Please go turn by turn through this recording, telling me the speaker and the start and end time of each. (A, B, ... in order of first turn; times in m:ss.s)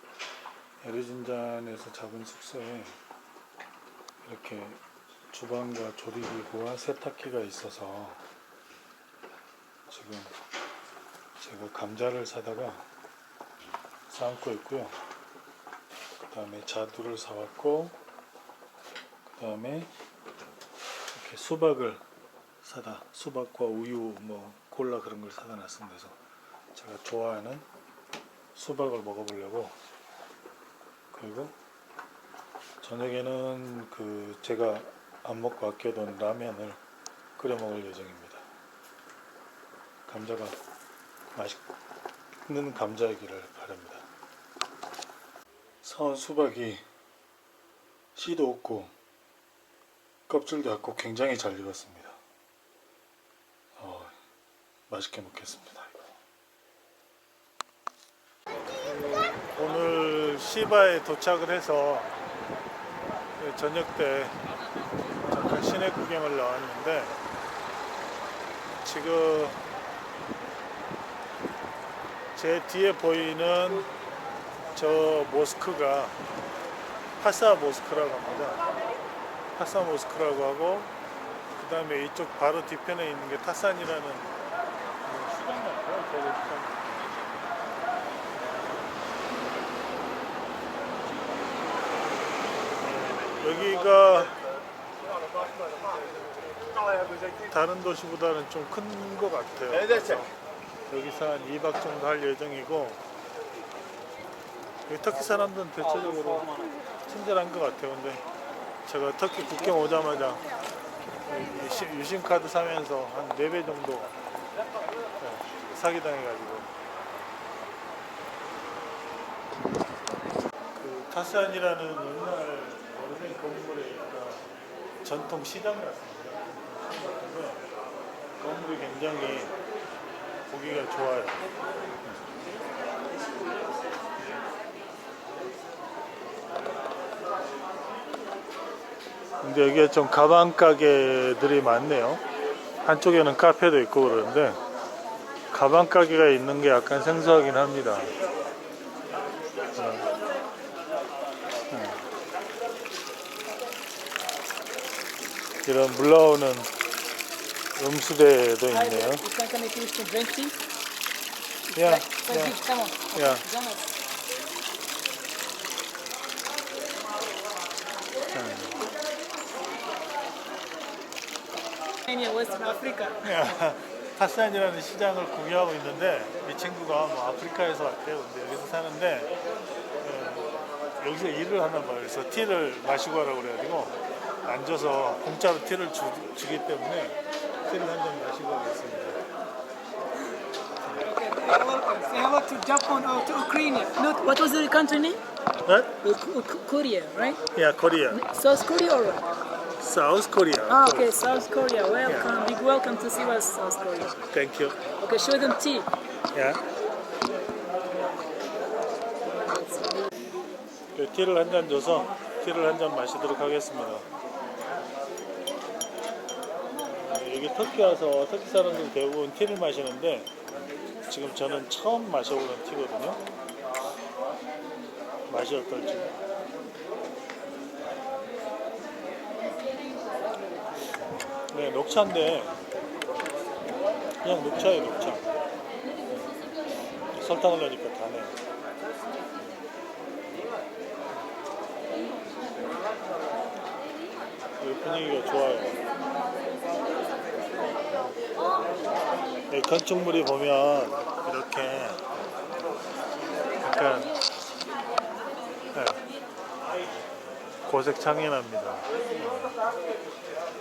0:00.8-0:03.0 A
0:04.2-0:04.8 A
0:05.3-0:08.2 A
0:09.9-0:10.3 A
0:11.4-0:12.8 A
0:14.1-0:15.0 A
0:16.2-0:18.0 A
0:19.3-0:19.9 A
0:21.1-0:22.0 A
0:22.6-0:26.2 A
0:26.7-0:27.6 A
0:28.6-0:29.8 A
0:31.1-0:31.6 A
0:32.8-0:36.8 A
0:37.4-0:38.5 A
0:40.1-0:40.6 A
0:41.3-0:41.6 A
0:42.4-0:44.1 A
0:45.8-0:46.8 A
0:48.2-0:48.9 A
0:50.3-0:52.2 A
0:53.8-0:54.2 A
0:54.9-0:56.1 A
0:58.8-1:02.1 A
1:03.4-1:04.4 A
1:05.3-1:07.2 A
1:08.8-1:09.6 A
1:12.4-1:13.9 A
1:14.7-1:16.2 A
1:17.2-1:18.7 A
1:19.6-1:20.9 A
1:21.6-1:24.3 A
1:25.0-1:26.9 A
1:32.8-1:34.4 A
1:37.4-1:40.3 A
1:40.9-1:43.0 A
1:44.9-1:46.6 A
1:47.1-1:48.2 A
1:48.8-1:50.4 A
1:51.2-1:54.2 A
1:55.2-1:56.7 A
2:00.8-2:04.5 A
2:05.0-2:07.7 A
2:08.4-2:09.6 A
2:10.5-2:11.4 A
2:19.4-2:22.2 A
2:22.8-2:24.6 A
2:25.5-2:28.2 A
2:29.8-2:30.1 A
2:31.7-2:32.0 A
2:35.6-2:36.7 A
2:37.8-2:39.3 A
2:38.7-2:40.6 B
2:41.7-2:42.6 A
2:41.7-2:43.9 B
2:43.1-2:43.5 A
2:48.3-2:48.9 A
2:52.1-2:53.2 B
2:53.2-2:59.3 A
3:00.0-3:09.2 A
3:11.0-3:15.2 B
3:15.7-3:16.0 A
3:16.0-3:17.4 B
3:17.5-3:18.2 A
3:18.1-3:19.3 B
3:19.8-3:21.3 A
3:20.7-3:24.2 B
3:22.0-3:22.3 A
3:24.2-3:24.8 A
3:25.0-3:25.9 B
3:26.3-3:26.6 A
3:29.5-3:30.0 B
3:31.0-3:34.1 A
3:36.8-3:40.3 A
3:41.1-3:43.2 A
3:45.3-3:46.1 A
3:51.5-3:52.5 A
3:54.2-3:55.3 A
3:57.1-3:58.4 A
4:04.6-4:05.8 A
4:09.5-4:12.0 A
4:13.6-4:14.1 A
4:15.7-4:16.0 A
4:17.7-4:19.6 A